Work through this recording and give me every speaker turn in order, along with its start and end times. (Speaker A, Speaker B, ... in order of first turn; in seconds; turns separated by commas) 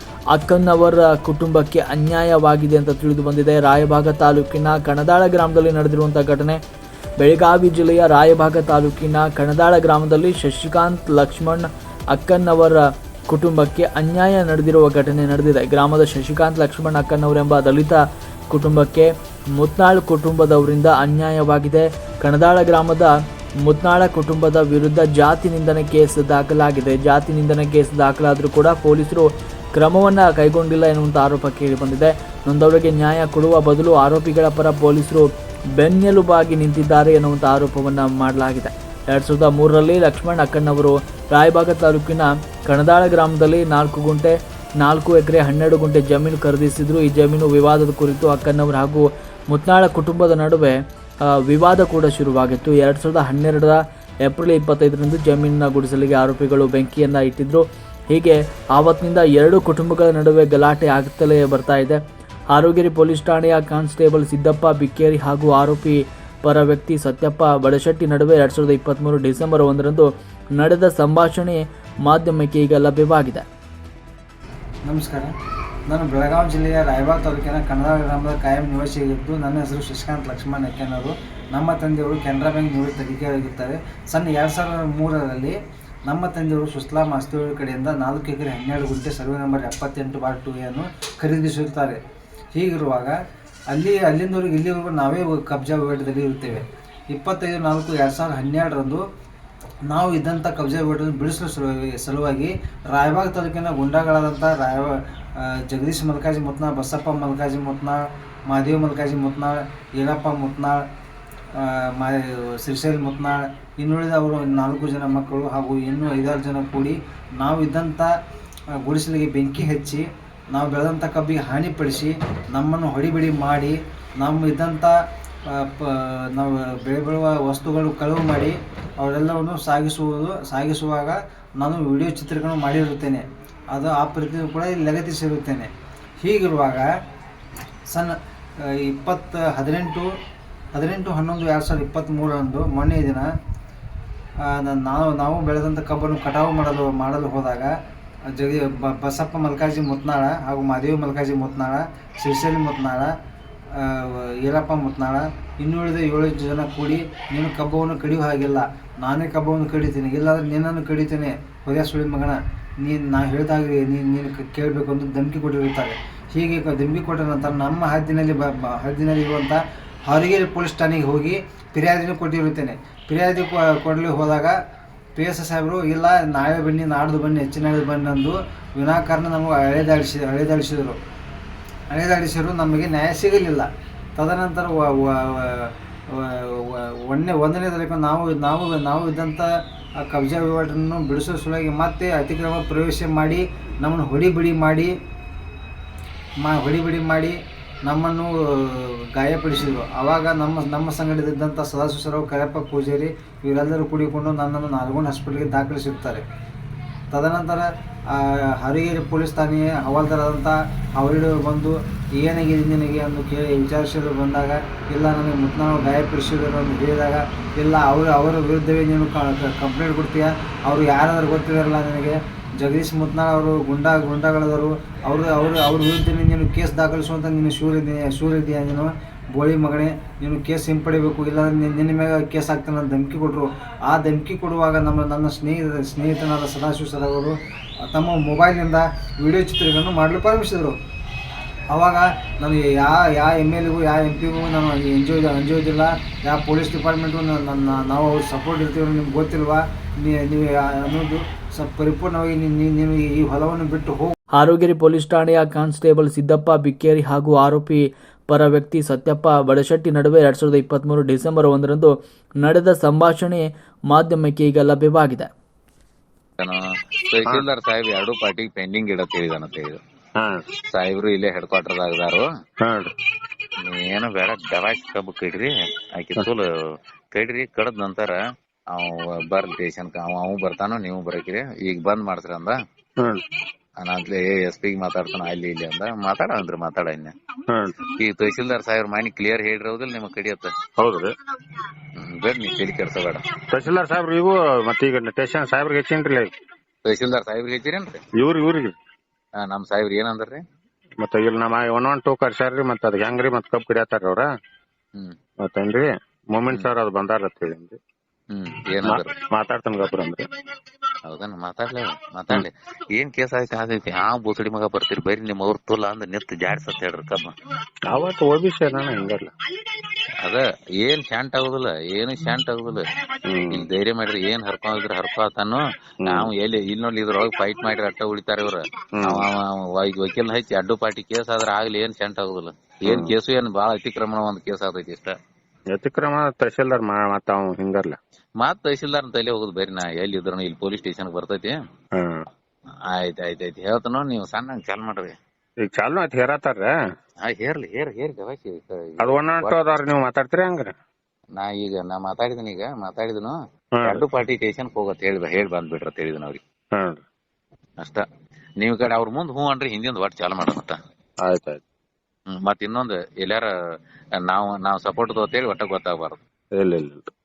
Speaker A: 0.3-6.6, Speaker A: 7.2-23.1, Speaker A: 23.6-62.0, Speaker A: 62.5-73.5, Speaker B: 74.9-75.3, Speaker B: 75.9-85.5, Speaker B: 86.1-92.0, Speaker B: 92.5-93.1, Speaker B: 93.7-99.0, Speaker B: 99.9-110.8, Speaker B: 111.5-118.1, Speaker B: 118.8-124.9, Speaker B: 125.5-135.7, Speaker B: 136.2-136.9, Speaker B: 137.9-140.1, Speaker B: 140.7-143.3, Speaker B: 144.4-147.7, Speaker B: 148.3-153.1, Speaker B: 153.8-174.5, Speaker B: 175.2-181.0, Speaker B: 181.9-189.5, Speaker B: 190.0-194.9, Speaker B: 196.4-206.2, Speaker B: 207.1-237.3, Speaker B: 237.9-240.8, Speaker B: 241.7-254.1, Speaker A: 254.4-265.3, Speaker C: 266.4-269.8, Speaker D: 270.2-270.4, Speaker C: 270.7-272.3, Speaker D: 272.6-272.9, Speaker C: 273.6-276.5, Speaker C: 277.1-278.2, Speaker C: 278.7-282.6, Speaker C: 283.8-287.1, Speaker D: 287.5-287.8, Speaker C: 288.0-290.5, Speaker D: 290.8-291.1, Speaker C: 292.1-293.3, Speaker D: 293.5-296.3, Speaker C: 296.9-298.0, Speaker D: 298.2-298.8, Speaker C: 299.4-300.4, Speaker D: 301.0-304.3, Speaker D: 305.4-307.8, Speaker C: 308.3-309.2, Speaker D: 308.8-310.3, Speaker C: 311.1-317.4, Speaker D: 317.9-319.3, Speaker C: 320.2-322.9, Speaker D: 323.3-323.7, Speaker C: 323.5-335.2, Speaker D: 326.0-326.3, Speaker D: 329.0-329.3, Speaker D: 332.9-333.1, Speaker D: 335.7-338.0, Speaker C: 338.4-341.6, Speaker D: 342.0-342.2, Speaker C: 342.9-345.1, Speaker D: 345.6-346.7, Speaker C: 347.3-349.6, Speaker D: 349.0-350.7, Speaker C: 351.4-356.4, Speaker D: 353.8-354.1, Speaker D: 356.8-357.0, Speaker C: 358.6-360.8, Speaker D: 361.2-361.6, Speaker C: 362.3-363.5, Speaker C: 364.2-366.2, Speaker D: 366.5-367.1